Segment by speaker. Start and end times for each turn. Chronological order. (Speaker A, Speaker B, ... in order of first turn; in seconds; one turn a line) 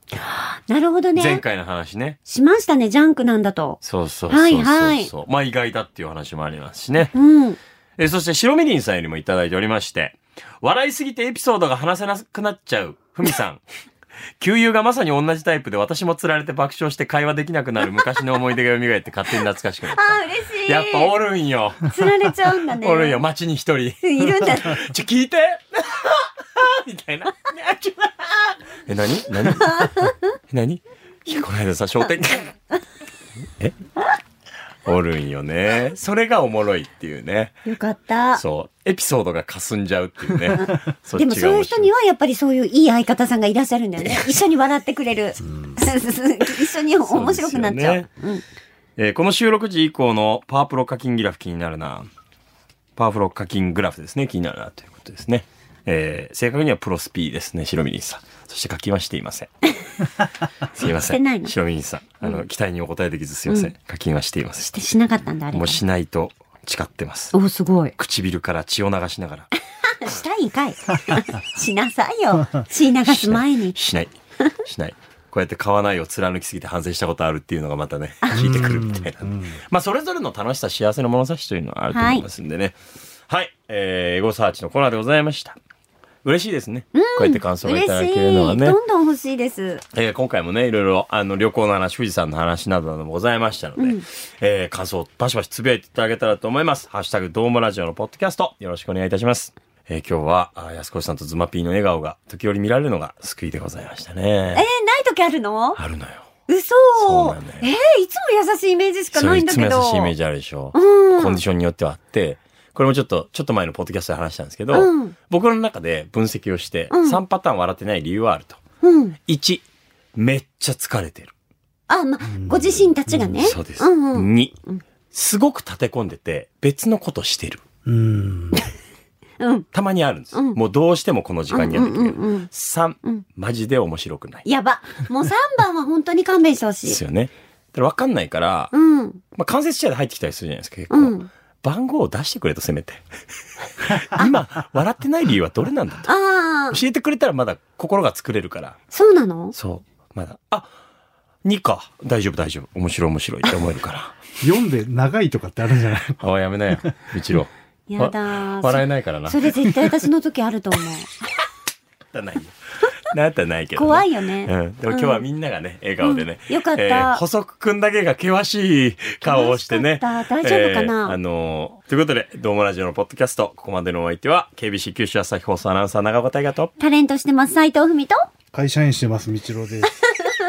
Speaker A: 0.2-1.4
Speaker B: 1.1-2.2
Speaker A: 2.2-3.8
Speaker B: 3.8-7.1
Speaker A: 4.3-5.1
Speaker A: 7.1-7.6
Speaker B: 8.0-13.6
Speaker B: 14.4-21.9
Speaker A: 19.9-21.1
Speaker A: 21.9-23.2
Speaker B: 22.8-32.5
Speaker A: 24.0-24.8
Speaker A: 29.6-30.2
Speaker B: 34.9-37.6
Speaker A: 37.6-38.4
Speaker B: 38.4-41.9
Speaker A: 40.5-48.4
Speaker C: 45.5-45.8
Speaker B: 47.1-48.1
Speaker B: 49.0-52.1
Speaker B: 53.0-59.5
Speaker B: 60.7-64.7
Speaker A: 60.8-61.5
Speaker A: 64.6-65.8
Speaker B: 65.5-67.3
Speaker A: 67.3-67.9
Speaker B: 68.0-69.5
Speaker A: 70.0-73.8
Speaker B: 73.0-74.1
Speaker B: 74.6-82.8
Speaker A: 78.2-78.6
Speaker C: 78.3-79.6
Speaker A: 81.9-82.2
Speaker B: 83.3-85.6
Speaker B: 86.2-88.8
Speaker A: 86.9-89.8
Speaker B: 89.9-104.6
Speaker A: 93.8-94.0
Speaker A: 104.5-105.8
Speaker B: 105.8-106.3
Speaker A: 106.5-110.1
Speaker B: 107.0-107.7
Speaker B: 109.1-118.6
Speaker A: 110.7-111.4
Speaker A: 114.7-115.2
Speaker A: 116.9-117.2
Speaker A: 118.8-119.2
Speaker B: 119.3-119.6
Speaker B: 120.2-121.3
Speaker A: 121.9-124.8
Speaker C: 122.3-123.5
Speaker B: 123.4-124.5
Speaker B: 125.1-127.6
Speaker C: 127.8-128.6
Speaker A: 129.4-129.7
Speaker B: 129.7-134.4
Speaker A: 131.5-132.5
Speaker A: 134.4-137.0
Speaker B: 136.8-138.7
Speaker A: 138.7-139.2
Speaker B: 139.3-143.0
Speaker A: 140.9-141.3
Speaker B: 143.8-146.1
Speaker A: 146.1-146.8
Speaker B: 146.7-148.8
Speaker A: 148.9-149.5
Speaker B: 149.5-150.7
Speaker B: 151.4-154.2
Speaker C: 154.4-156.2
Speaker B: 156.2-159.5
Speaker A: 157.9-161.2
Speaker B: 162.1-162.5
Speaker B: 163.1-176.7
Speaker A: 163.7-165.2
Speaker A: 166.0-167.2
Speaker A: 169.2-171.2
Speaker A: 176.8-178.2
Speaker C: 178.5-179.9